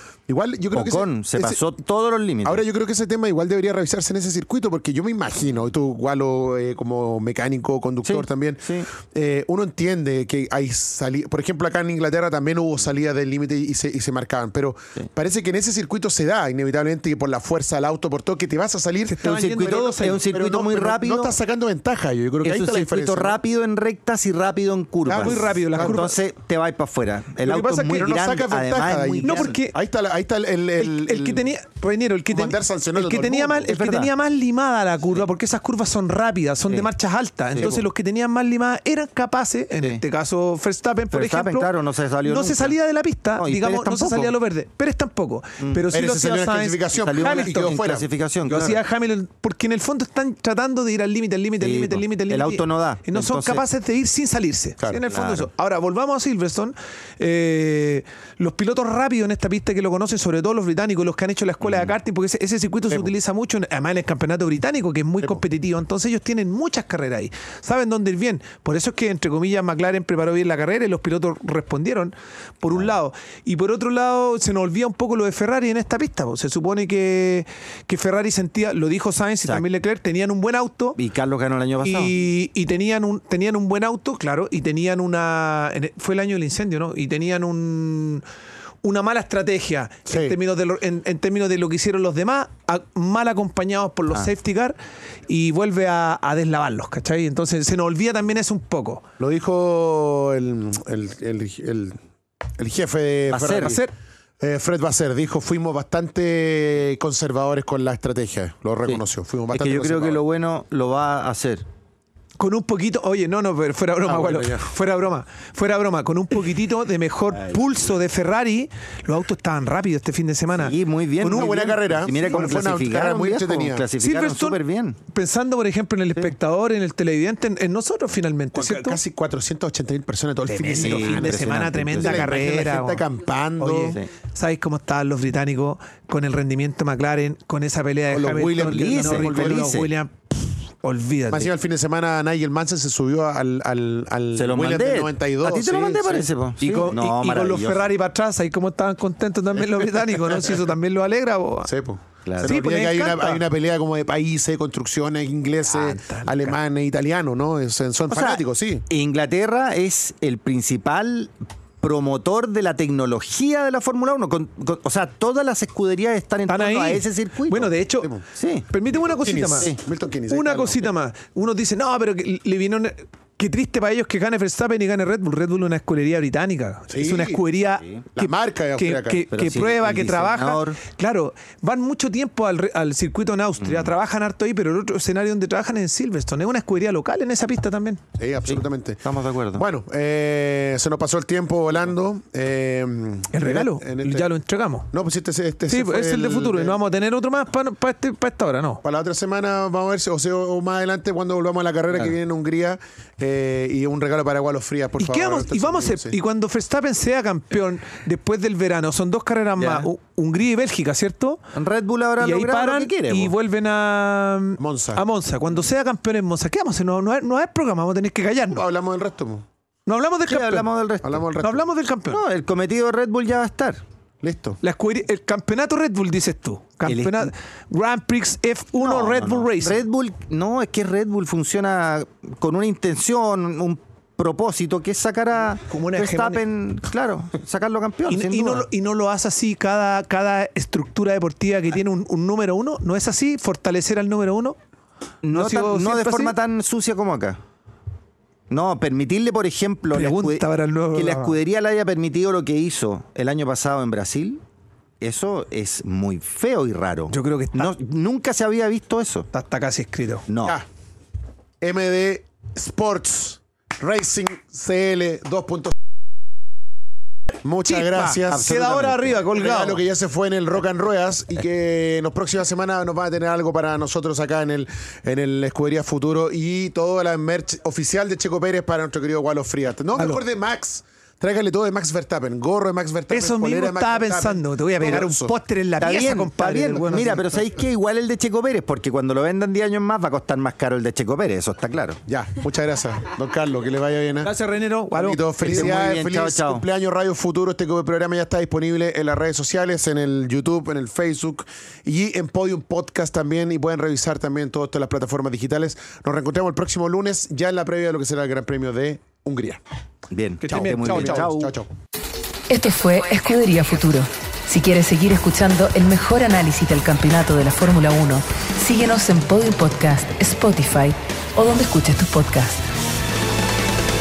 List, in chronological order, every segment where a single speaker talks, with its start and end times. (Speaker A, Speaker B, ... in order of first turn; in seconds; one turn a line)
Speaker A: 0.3-1.6
Speaker B: 0.7-2.6
Speaker A: 2.4-19.3
Speaker B: 8.0-8.9
Speaker C: 19.1-20.2
Speaker B: 19.2-21.4
Speaker A: 20.0-23.4
Speaker B: 22.4-29.6
Speaker A: 25.1-26.0
Speaker C: 25.1-26.2
Speaker C: 27.4-28.1
Speaker A: 27.8-31.5
Speaker C: 29.2-29.8
Speaker C: 30.8-41.7
Speaker A: 32.3-33.8
Speaker B: 33.7-34.1
Speaker B: 37.5-37.9
Speaker B: 41.1-42.8
Speaker C: 42.2-47.7
Speaker B: 43.4-44.3
Speaker A: 45.9-48.1
Speaker B: 46.9-48.8
Speaker C: 48.5-81.0
Speaker B: 51.6-53.6
Speaker B: 55.0-55.5
Speaker B: 61.6-61.9
Speaker B: 81.0-82.1
Speaker C: 81.8-88.2
Speaker C: 88.8-94.8
Speaker A: 90.1-90.4
Speaker C: 95.3-99.0
Speaker A: 99.2-102.0
Speaker A: 102.6-103.8
Speaker B: 103.3-103.8
Speaker C: 103.6-103.9
Speaker A: 104.4-110.2
Speaker B: 108.9-111.6
Speaker C: 112.4-120.7
Speaker A: 114.0-114.7
Speaker B: 120.5-125.0
Speaker A: 121.2-123.8
Speaker C: 121.2-121.7
Speaker C: 122.2-122.6
Speaker C: 124.0-129.0
Speaker A: 128.5-131.4
Speaker C: 130.5-133.0
Speaker B: 130.7-132.4
Speaker A: 131.9-134.0
Speaker C: 133.6-141.5
Speaker A: 138.1-139.8
Speaker B: 138.6-139.9
Speaker A: 141.3-146.3
Speaker B: 144.3-147.9
Speaker C: 146.6-151.7
Speaker A: 151.7-158.8
Speaker B: 152.2-152.5
Speaker C: 152.4-153.4
Speaker C: 155.7-156.5
Speaker B: 158.1-167.7
Speaker C: 166.5-168.1
Speaker B: 168.3-168.7
Speaker C: 168.7-169.7
Speaker A: 169.2-170.9
Speaker C: 170.3-188.0
Speaker A: 176.9-177.4
Speaker A: 178.1-179.3
Speaker B: 179.3-180.8
Speaker B: 183.6-183.9
Speaker A: 188.2-194.3
Speaker B: 188.5-189.6
Speaker C: 193.3-194.9
Speaker A: 194.9-196.8
Speaker C: 195.7-198.8
Speaker A: 198.8-206.2
Speaker C: 205.0-211.4
Speaker B: 209.6-209.9
Speaker B: 211.5-213.3
Speaker C: 212.2-218.6
Speaker A: 214.6-215.0
Speaker A: 218.5-219.4
Speaker C: 219.9-220.7
Speaker B: 220.2-221.3
Speaker A: 221.0-221.6
Speaker C: 221.4-222.2
Speaker B: 222.1-223.8
Speaker A: 224.2-224.6
Speaker C: 224.6-229.8
Speaker B: 226.8-227.3
Speaker B: 228.8-238.7
Speaker C: 235.7-236.4
Speaker C: 238.1-244.6
Speaker B: 245.2-247.4
Speaker C: 245.3-246.4
Speaker B: 248.5-254.4
Speaker C: 249.9-251.4
Speaker B: 255.0-259.3
Speaker C: 257.1-257.7
Speaker C: 259.3-260.2
Speaker B: 260.3-260.6
Speaker A: 261.6-265.7
Speaker A: 267.4-268.5
Speaker C: 267.6-269.8
Speaker B: 268.3-269.2
Speaker A: 269.3-285.3
Speaker C: 279.9-280.2
Speaker C: 283.1-287.4
Speaker B: 285.8-292.0
Speaker A: 292.1-294.3
Speaker C: 294.2-295.7
Speaker A: 294.9-309.6
Speaker B: 295.4-296.6
Speaker B: 310.1-311.5
Speaker C: 310.4-311.3
Speaker A: 310.5-311.7
Speaker D: 312.5-322.6